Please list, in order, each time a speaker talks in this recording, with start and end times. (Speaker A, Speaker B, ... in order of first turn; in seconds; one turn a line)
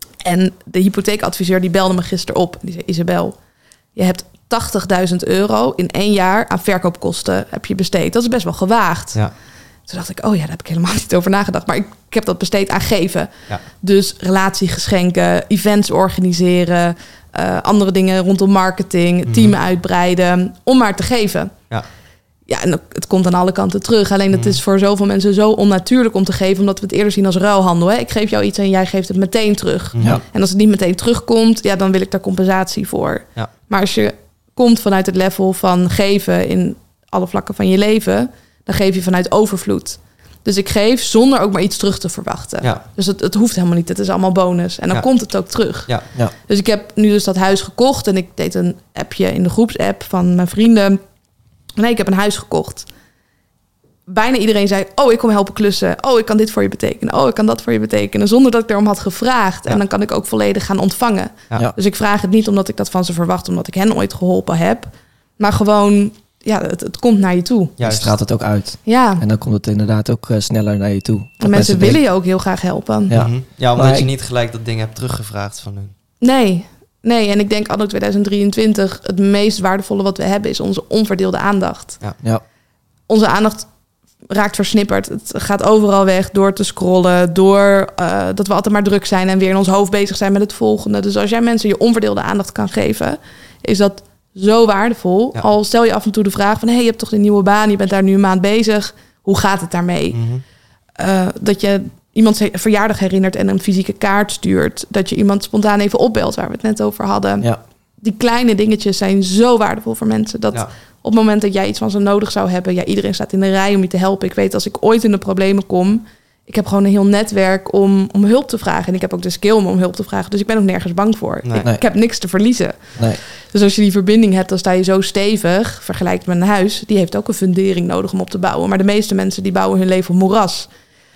Speaker A: 0.2-3.4
Speaker A: 4.0-9.2
Speaker A: 9.9-21.5
Speaker B: 19.3-19.6
Speaker A: 22.5-51.0
Speaker B: 24.3-24.6
Speaker B: 29.9-30.2
Speaker A: 51.8-52.9
Speaker A: 54.1-67.8
Speaker B: 67.8-68.1
Speaker C: 67.8-72.0
Speaker A: 68.8-69.2
Speaker A: 71.4-73.1
Speaker C: 73.1-74.1
Speaker B: 73.1-75.9
Speaker A: 76.2-82.0
Speaker A: 83.1-83.7
Speaker A: 84.3-100.2
Speaker B: 100.1-100.4
Speaker A: 101.0-107.5
Speaker A: 108.0-130.7